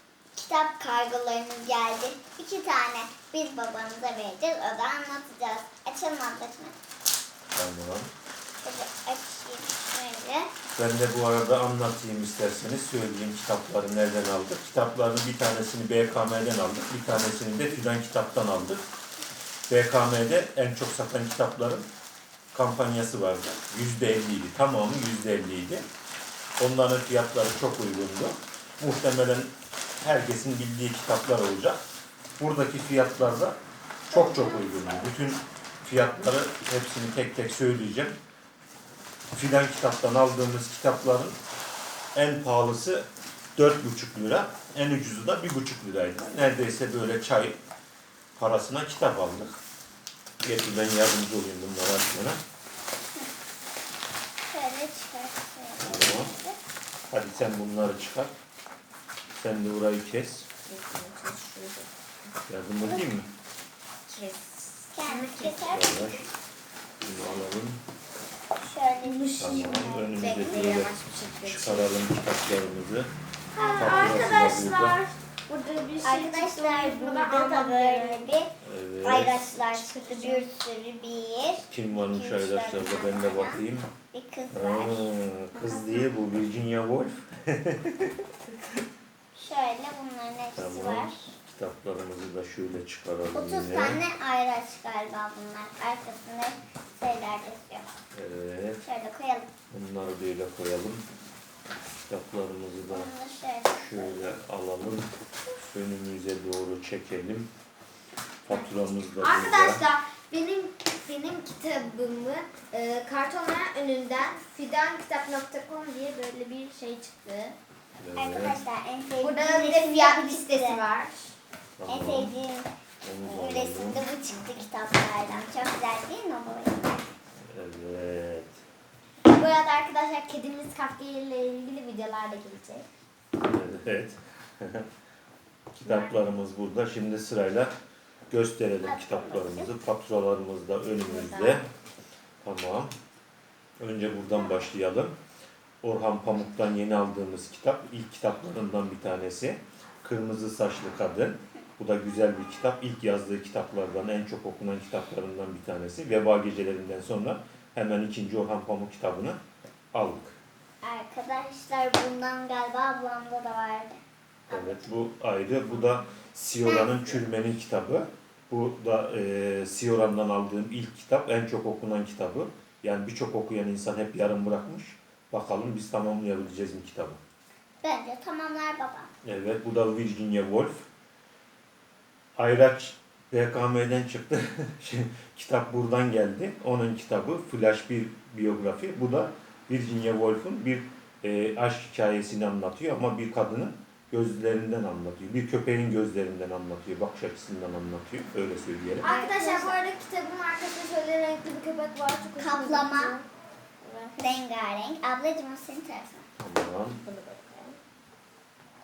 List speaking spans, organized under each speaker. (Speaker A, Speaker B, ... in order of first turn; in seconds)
Speaker A: 0.3-6.8, 8.6-10.5, 34.1-35.1, 54.5-56.6, 64.9-66.2, 68.6-70.7, 73.5-74.3, 76.0-85.1, 89.3-91.2, 93.3-98.0, 98.8-99.5, 102.9-104.4, 118.2-120.8, 121.9-127.1, 138.8-139.7, 160.8-163.9, 164.5-164.9, 166.6-167.2, 177.8-179.1, 199.0-199.8, 202.4-203.2, 204.2-206.3
Speaker B: 7.5-8.1, 10.8-18.8, 19.7-21.9, 22.5-25.9, 26.6-31.8, 32.4-33.6, 34.1-38.2, 39.3-41.4, 42.1-47.6, 48.4-49.6, 50.4-52.4, 55.8-56.3, 57.1-58.3, 59.4-60.5, 62.5-63.3, 65.5-66.3, 67.0-67.8, 69.4-73.1, 73.8-75.0, 78.6-79.5, 81.7-83.9, 84.5-88.5, 90.6-94.0, 98.1-98.8, 99.7-101.0, 102.1-103.1, 103.7-105.1, 105.7-107.5, 108.4-109.8, 118.0-118.6, 121.8-122.3, 123.0-124.0, 127.5-128.6, 133.5-134.9, 135.8-137.7, 138.3-141.6, 142.4-142.9, 143.8-145.2, 145.8-159.4, 159.9-160.4, 164.5-177.2, 179.2-180.9, 182.4-199.1, 206.4-207.0
Speaker C: 60.7-61.9, 64.1-65.7, 69.0-72.1, 73.5-78.3, 79.5-80.5, 85.5-86.1, 108.5-117.6, 119.2-121.3, 129.2-132.8, 135.8-136.2, 141.0-141.6, 199.0-203.3, 203.8-204.4, 207.0-207.8